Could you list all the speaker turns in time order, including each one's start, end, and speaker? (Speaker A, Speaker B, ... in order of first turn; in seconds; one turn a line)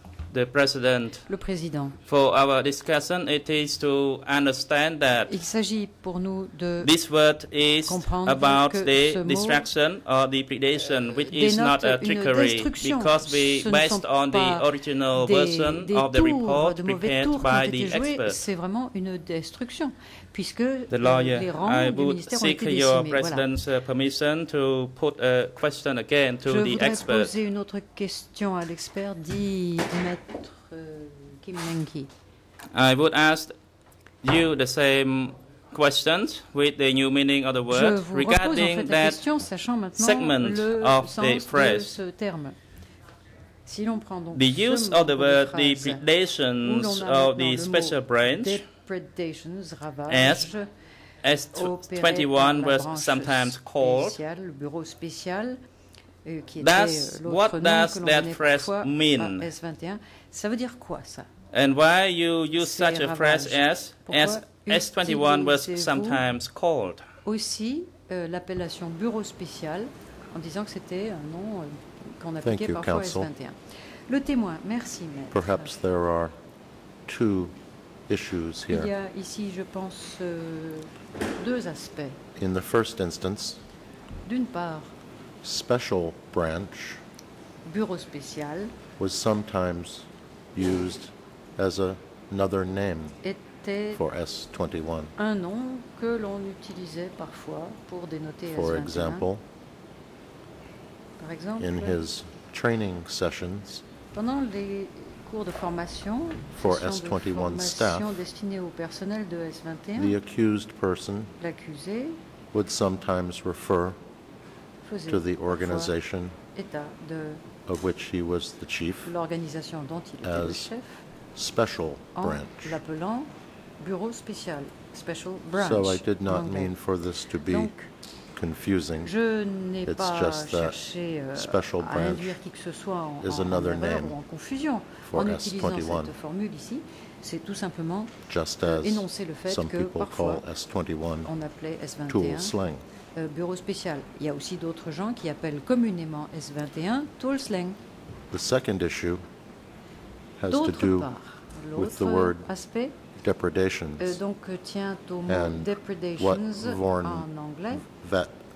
Speaker A: 0.3-1.3
Speaker B: 1.3-2.0
Speaker A: 2.0-5.3
Speaker B: 5.3-6.9
Speaker A: 6.8-18.4
Speaker B: 7.8-9.7
Speaker B: 10.8-23.4
Speaker A: 20.9-27.3
Speaker B: 26.4-32.1
Speaker A: 32.7-33.5
Speaker A: 34.2-39.2
Speaker B: 37.7-42.6
Speaker A: 40.0-41.9
Speaker B: 43.6-46.0
Speaker A: 44.3-48.6
Speaker B: 46.6-50.7
Speaker A: 50.1-50.5
Speaker A: 51.2-54.2
Speaker B: 51.5-55.6
Speaker B: 56.2-61.3
Speaker A: 56.6-59.5
Speaker A: 61.5-67.0
Speaker B: 62.6-66.2
Speaker B: 67.2-75.8
Speaker C: 72.4-73.3
Speaker C: 75.3-76.3
Speaker C: 77.0-77.6
Speaker C: 78.1-78.9
Speaker B: 78.7-82.2
Speaker C: 82.3-83.6
Speaker B: 84.2-84.9
Speaker C: 85.4-87.0
Speaker B: 87.6-88.7
Speaker C: 89.0-93.2
Speaker B: 93.2-94.0
Speaker C: 93.9-95.1
Speaker B: 95.2-99.2
Speaker C: 98.5-99.4
Speaker B: 101.2-102.0
Speaker C: 101.6-103.8
Speaker B: 104.1-110.1
Speaker C: 106.5-108.1
Speaker C: 110.0-111.3
Speaker B: 111.4-112.2
Speaker C: 112.5-114.0
Speaker B: 114.8-116.0
Speaker C: 115.1-116.4
Speaker B: 116.5-117.4
Speaker C: 117.7-119.1
Speaker B: 119.0-121.0
Speaker C: 120.2-120.7
Speaker C: 121.3-122.8
Speaker B: 122.1-126.7
Speaker C: 125.5-127.7
Speaker B: 127.5-127.9
Speaker C: 128.3-129.1
Speaker B: 129.0-140.4
Speaker C: 129.8-130.8
Speaker C: 131.3-132.4
Speaker C: 133.2-134.2
Speaker C: 135.0-136.1
Speaker C: 138.3-141.3
Speaker B: 141.2-142.6
Speaker C: 142.1-142.8
Speaker B: 143.2-147.8
Speaker C: 148.3-149.2
Speaker C: 150.4-151.1
Speaker B: 150.5-152.9
Speaker C: 151.7-152.5
Speaker C: 153.1-154.2
Speaker B: 154.0-157.8
Speaker C: 155.3-158.4